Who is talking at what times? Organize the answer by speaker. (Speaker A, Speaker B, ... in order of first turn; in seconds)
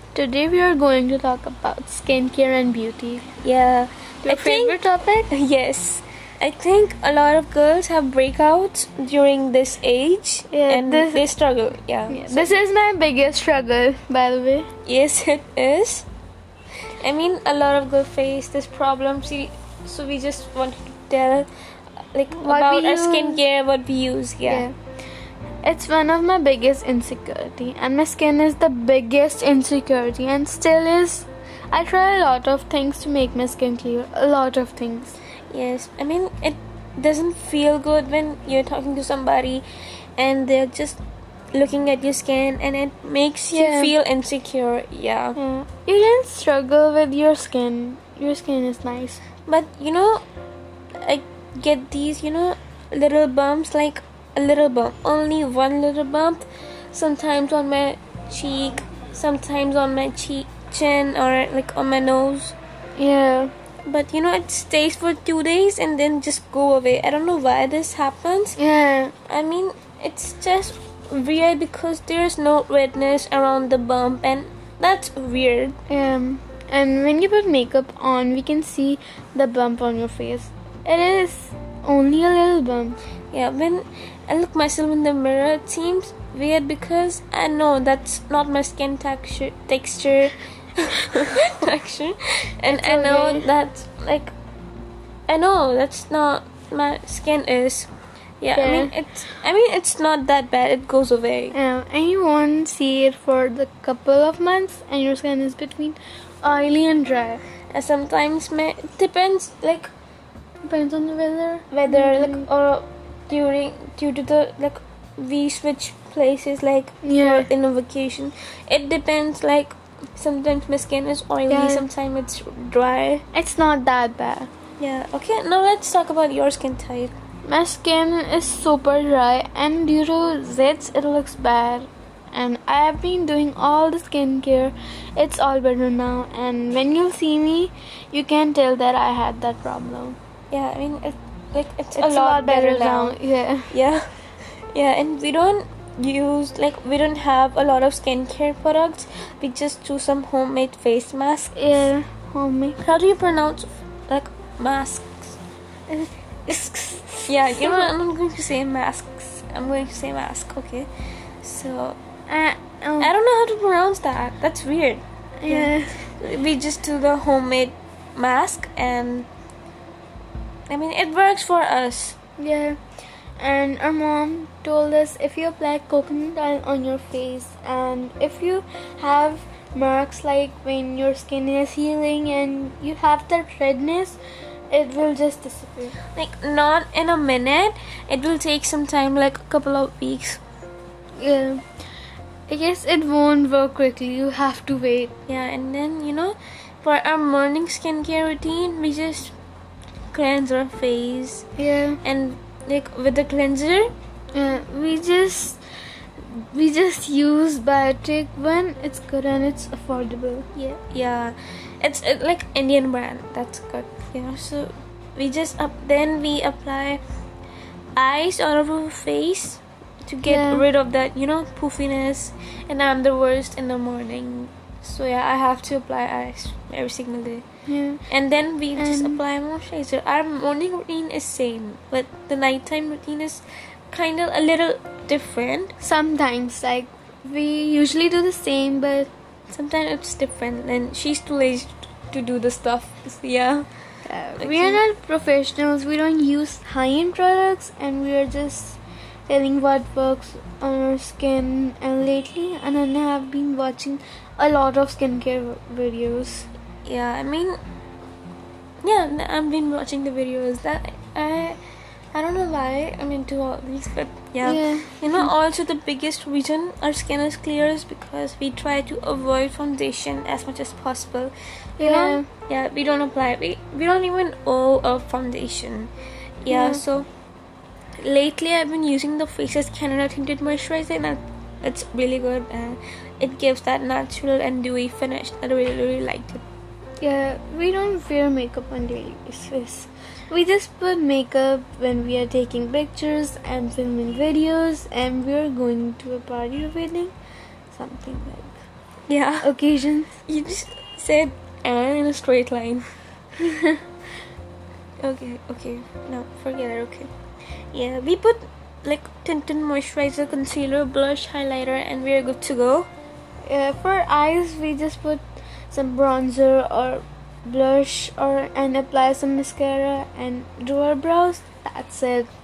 Speaker A: 0.1-3.3, 4.2-5.3, 10.5-11.2, 12.1-14.7, 22.3-23.4, 24.4-24.7, 25.6-35.2, 43.5-43.9, 45.4-49.2, 63.0-63.5, 68.6-69.1, 75.9-83.0, 92.7-93.5, 98.5-98.9, 101.5-107.4, 110.6-112.5, 117.0-117.5, 121.5-121.8, 123.3-124.5, 127.4-140.2, 142.0-143.7, 151.6-152.8, 155.9-157.9, 162.3-163.1, 165.4-166.2, 172.4-172.8, 173.4-184.2, 184.7-186.0, 191.2-191.6, 192.5-195.2, 201.6-202.0, 204.3-205.6, 206.2-210.5, 220.2-220.7, 227.7-228.1, 228.8-229.2, 235.8-239.1, 244.1-256.5, 264.4-265.3, 271.8-272.2, 276.5-276.8, 287.0-297.1, 297.7-298.6, 299.4-300.2, 303.4-303.8, 313.4-322.3
Speaker B: 3.4-12.6, 14.8-16.1, 17.0-21.5, 22.1-24.7, 35.5-39.7, 40.2-41.0, 41.5-45.4, 49.5-50.2, 51.0-62.5, 63.9-68.6, 69.3-75.8, 83.3-94.3, 95.3-97.9, 98.4-101.5, 107.7-109.9, 111.7-123.2, 124.8-127.1, 140.5-143.2, 143.7-151.6, 152.8-155.4, 157.2-160.9, 161.4-162.0, 163.0-169.3, 170.7-172.2, 186.1-190.4, 195.3-199.3, 200.1-201.5, 202.0-203.9, 210.6-217.0, 218.0-227.4, 228.1-235.8, 239.5-243.7, 244.4-244.8, 256.8-257.6, 258.8-261.6, 262.1-275.9, 276.4-277.1, 278.0-286.4, 299.1-299.5, 300.2-302.9, 305.0-307.1, 307.7-312.9